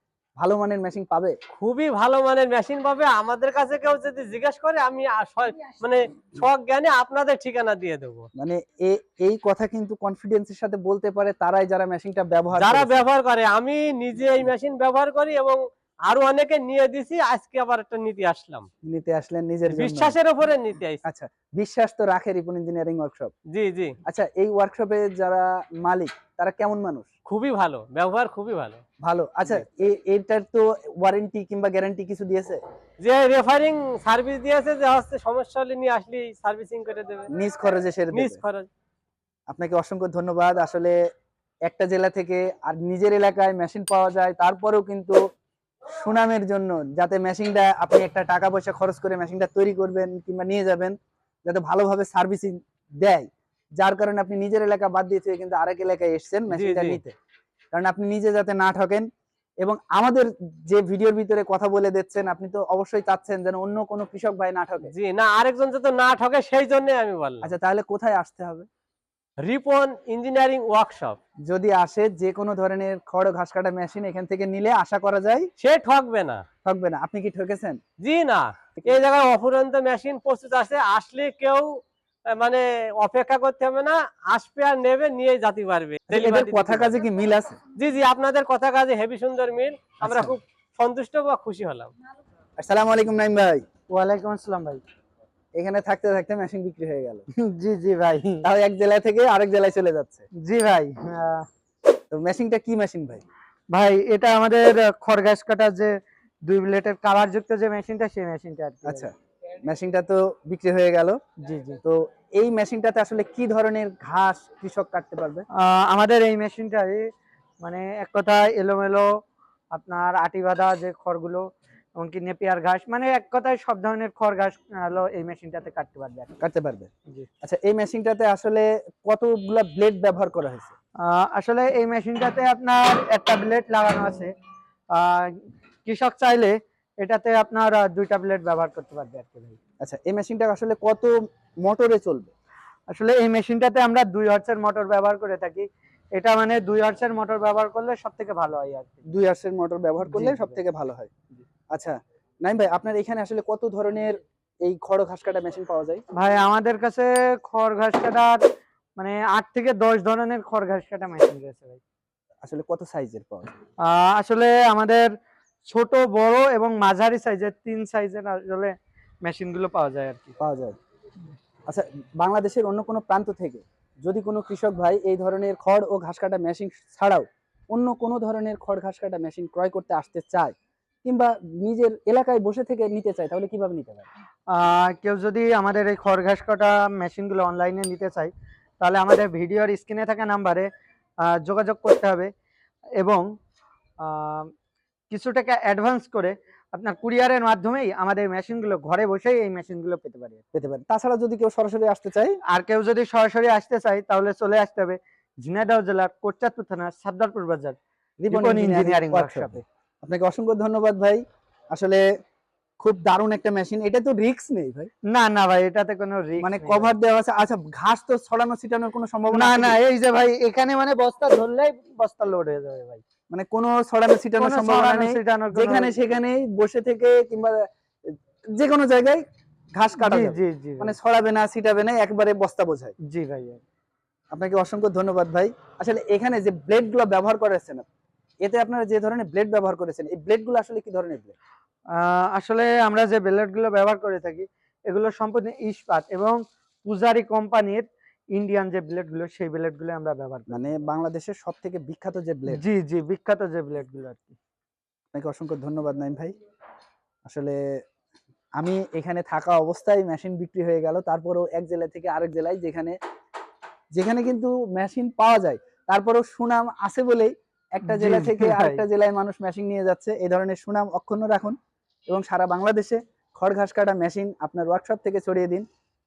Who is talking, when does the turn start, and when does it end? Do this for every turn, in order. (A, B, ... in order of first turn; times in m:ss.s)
0:00.4-0:01.4 A
0:01.5-0:08.3 B
0:08.4-0:13.0 A
0:12.5-0:18.7 B
0:18.8-0:20.2 A
0:19.7-0:21.0 B
0:21.0-0:23.3 A
0:23.5-0:23.9 B
0:24.0-0:27.1 A
0:27.3-0:28.8 B
0:29.0-0:32.6 A
0:33.0-0:37.3 B
0:37.3-0:38.4 A
0:38.1-0:38.7 B
0:39.5-0:41.0 A
0:41.6-0:45.2 A
0:45.9-0:57.2 A
0:56.5-0:57.0 B
0:57.7-0:59.1 A
0:59.6-1:04.9 A
1:04.8-1:07.5 B
1:07.4-1:08.7 A
1:09.4-1:11.2 B
1:11.4-1:15.5 A
1:15.6-1:16.4 B
1:16.6-1:17.8 A
1:18.0-1:26.9 B
1:26.1-1:27.6 A
1:27.7-1:31.9 B
1:30.0-1:30.3 A
1:32.6-1:33.6 A
1:33.9-1:34.8 C
1:35.6-1:37.3 A
1:37.4-1:38.5 C
1:38.4-1:40.2 A
1:40.4-1:41.4 C
1:42.1-1:43.2 A
1:43.7-1:45.9 C
1:46.4-1:49.1 C
1:48.8-1:51.2 A
1:51.4-1:51.8 C
1:51.8-1:55.4 A
1:55.5-1:57.1 C
1:57.6-1:59.1 C
1:59.7-2:01.4 C
2:02.0-2:06.3 C
2:06.4-2:06.9 A
2:07.4-2:10.7 A
2:11.0-2:14.3 C
2:14.9-2:19.6 C
2:19.8-2:22.3 A
2:22.9-2:29.0 C
2:29.1-2:31.1 A
2:30.1-2:30.6 C
2:31.7-2:36.0 A
2:36.1-2:38.4 C
2:39.0-2:41.8 C
2:42.4-2:43.5 A
2:43.8-2:45.1 C
2:45.6-2:50.3 C
2:50.4-2:50.8 A
2:51.7-3:04.1 A
3:04.5-3:10.7 C
3:11.2-3:12.3 C
3:13.0-3:13.2 C
3:14.0-3:14.5 C
3:15.1-3:20.4 C
3:20.5-3:22.4 A
3:22.5-3:27.8 C
3:28.2-3:32.0 A
3:28.3-3:29.6 C
3:32.8-3:34.9 A
3:35.1-3:36.9 C
3:36.4-3:39.8 A
3:39.3-3:43.0 C
3:43.3-3:49.2 A
3:44.4-3:46.0 C
3:49.7-3:52.9 A
3:50.0-3:51.0 C
3:53.0-3:53.6 C
3:54.3-3:57.8 A
3:58.4-4:01.3 A
4:01.9-4:10.6 C
4:10.5-4:12.6 A
4:12.5-4:14.4 C
4:15.1-4:16.3 A
4:17.2-4:17.6 A
4:18.6-4:23.0 A
4:23.9-4:31.6 A
4:27.8-4:28.8 C
4:32.1-4:35.6 A